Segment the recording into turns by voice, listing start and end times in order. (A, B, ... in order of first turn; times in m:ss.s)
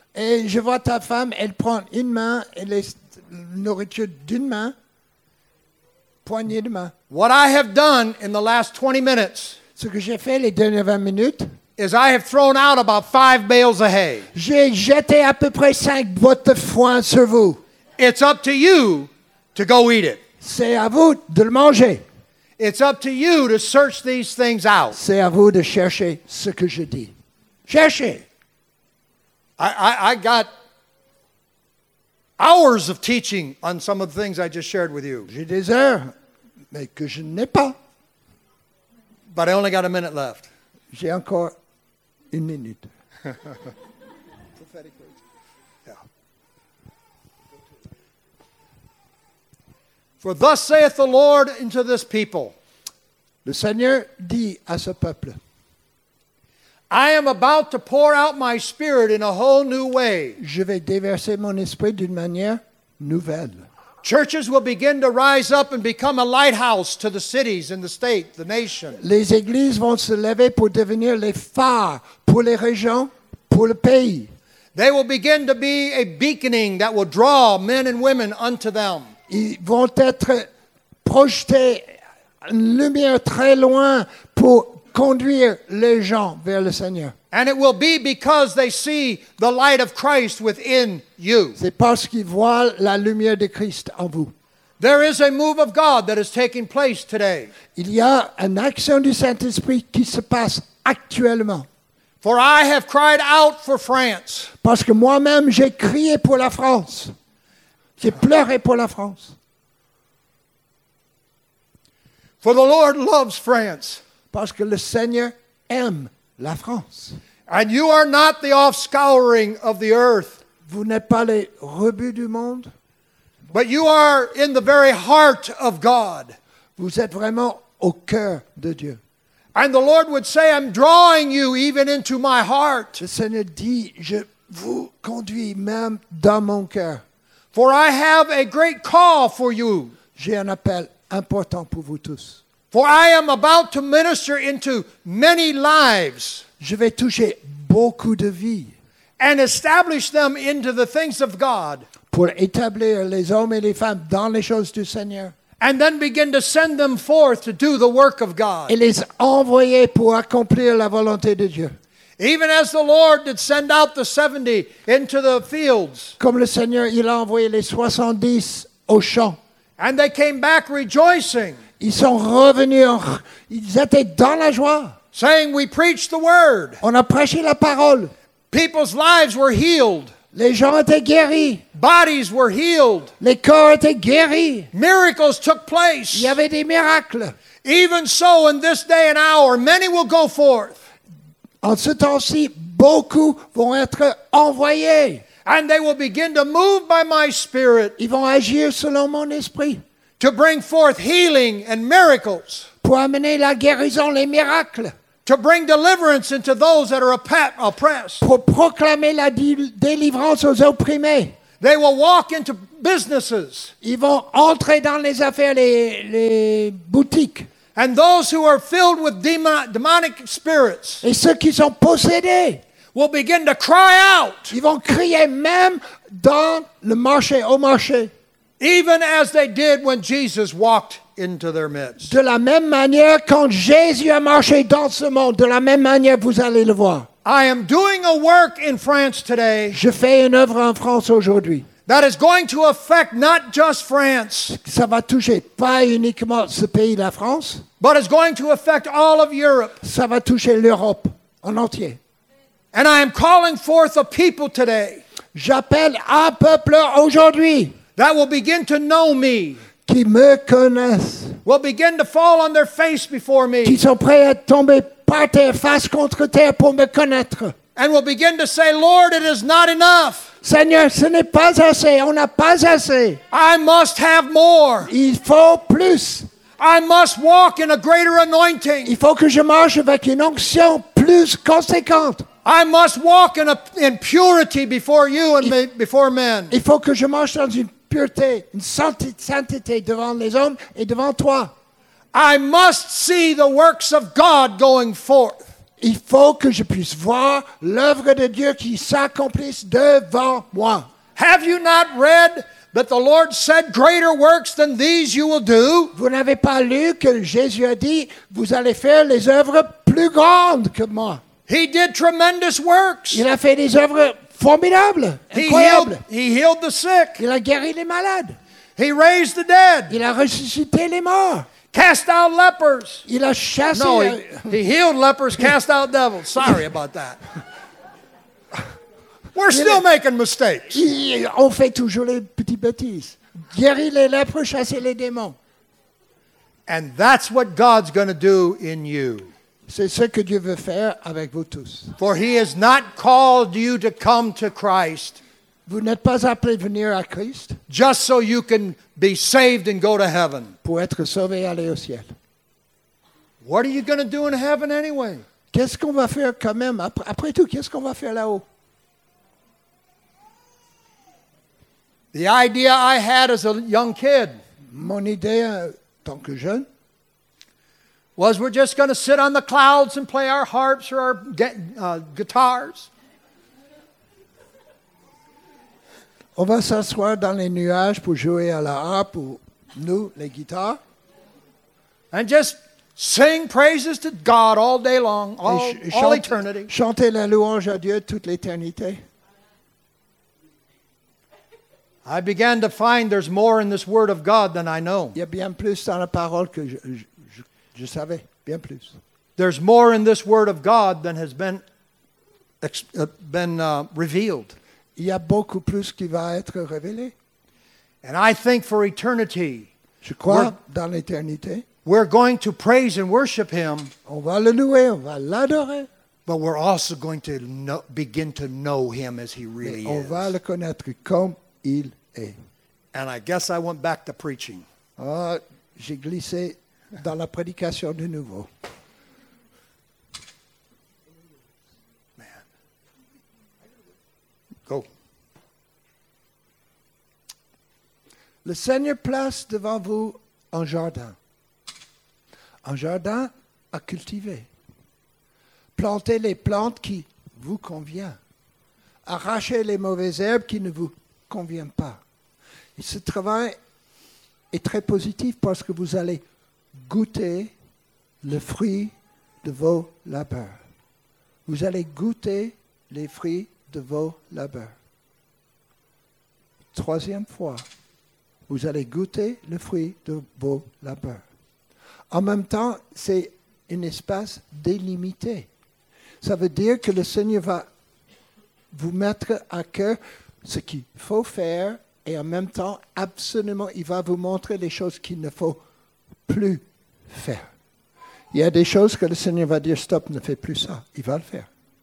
0:00.1-0:04.7 A
0:06.2-0:06.9 A
0:07.1-0:09.6 B
0:09.8-0:11.5 A
0:11.8-0:14.3 B
0:14.3-0:17.6 A
0:18.0-0:20.2 B
0:20.4-0:22.0 A
0:22.6-0:25.0 B
0:24.9-0:27.1 A
0:27.7-0:28.2 A
0:29.6-0:30.5 B
0:32.4-0:35.3 B
0:35.3-0:36.1 A
0:36.7-0:37.8 A
0:39.3-0:40.5 B
0:40.9-0:41.5 A
0:42.3-0:42.9 A
0:44.6-0:45.1 A
0:50.2-0:52.5 B
0:53.4-0:55.4 A
0:56.9-1:00.4 B
1:00.4-1:03.6 A
1:04.0-1:09.0 B
1:09.0-1:14.3 A
1:14.7-1:19.1 B
1:19.3-1:20.5 A
1:21.0-1:27.1 A
1:27.3-1:31.6 B
1:31.6-1:34.3 A
1:34.8-1:37.5 B
1:37.7-1:41.7 A
1:42.2-1:44.5 B
1:44.6-1:47.1 A
1:48.0-1:49.4 A
1:52.4-1:54.0 B
1:54.3-1:57.2 A
1:57.5-2:00.4 B
2:00.6-2:02.7 A
2:03.5-2:06.4 B
2:06.8-2:09.0 A
2:09.5-2:13.0 B
2:13.0-2:17.0 A
2:17.5-2:19.9 B
2:20.2-2:22.4 A
2:22.7-2:26.4 B
2:26.6-2:28.7 A
2:29.2-2:31.8 B
2:32.1-2:35.3 A
2:35.6-2:38.7 B
2:38.7-2:41.7 A
2:42.2-2:46.1 B
2:46.2-2:49.4 A
2:49.8-2:51.6 B
2:51.8-2:55.0 A
2:55.1-2:56.8 B
2:56.8-2:58.1 A
2:58.5-3:00.1 B
3:00.3-3:01.6 A
3:01.7-3:03.1 B
3:03.2-3:04.7 A
3:04.7-3:06.4 B
3:06.1-3:07.4 A
3:07.6-3:10.8 B
3:11.6-3:15.2 A
3:15.4-3:18.0 B
3:18.0-3:19.8 A
3:20.2-3:22.7 B
3:22.8-3:24.9 A
3:25.2-3:28.2 B
3:28.2-3:31.4 A
3:31.6-3:33.7 B
3:33.8-3:37.5 A
3:37.7-3:41.0 B
3:41.0-3:42.6 A
3:42.9-3:44.5 B
3:44.5-3:48.1 A
3:48.6-3:52.1 B
3:52.0-3:57.1 A
3:57.2-3:59.8 B
3:59.7-4:01.7 A
4:01.9-4:04.6 B
4:04.5-4:07.6 A
4:07.8-4:09.8 B
4:09.8-4:12.0 A
4:12.7-4:15.0 B
4:15.3-4:17.8 A
4:18.0-4:19.6 B
4:19.8-4:21.4 A
4:21.4-4:23.8 B
4:23.6-4:27.5 A
4:27.8-4:30.3 B
4:30.4-4:33.2 A
4:33.3-4:34.9 B
4:34.8-4:36.3 A
4:36.6-4:38.9 B
4:38.8-4:42.2 A
4:42.4-4:46.5 B
4:46.5-4:51.5 A
4:52.1-4:55.4 B
4:55.8-5:00.9 A
5:01.2-5:05.9 B
5:05.9-5:11.2 A
5:11.5-5:13.2 B
5:13.1-5:16.0 A
5:15.3-5:17.2 B
5:17.2-5:18.4 A
5:18.8-5:20.0 B
5:19.9-5:21.5 A
5:21.7-5:23.0 B
5:23.1-5:24.5 A
5:23.7-5:27.2 B
5:29.3-5:30.8 B
5:29.5-5:29.8 A
5:30.7-5:35.4 A
5:36.7-5:39.3 B
5:39.7-5:41.9 A
5:42.0-5:45.2 B
5:45.7-5:47.6 A
5:47.7-5:50.5 B
5:50.6-5:52.1 A
5:53.4-5:55.2 B
5:55.5-5:58.4 A
6:02.1-6:04.4 B
6:04.7-6:06.7 A
6:08.2-6:12.9 B
6:16.4-6:20.8 A
6:22.1-6:26.7 B
6:25.4-6:29.0 A
6:32.0-6:35.2 B
6:35.1-6:39.0 A
6:39.4-6:41.6 B
6:42.6-6:44.6 B
6:45.0-6:47.1 A
6:48.0-6:49.7 B
6:50.0-6:51.6 A
6:50.3-6:50.5 B
6:51.8-6:53.9 B
6:54.0-6:55.9 A
6:56.3-7:00.3 B
6:59.6-7:02.4 A
7:02.9-7:04.6 B
7:05.0-7:08.5 A
7:12.2-7:12.4 B
7:18.4-7:21.2 A
7:22.6-7:24.5 A
7:25.8-7:28.2 A
7:29.0-7:32.0 A
7:32.8-7:33.6 A
7:34.5-7:36.2 A
7:36.7-7:37.5 A
7:38.2-7:40.6 A
7:41.4-7:44.7 A
7:46.7-7:47.6 A
7:48.5-7:51.2 A
7:52.1-7:55.5 A
7:56.2-7:57.6 A
7:58.7-8:05.6 A
8:06.3-8:07.5 A
8:08.3-8:11.5 A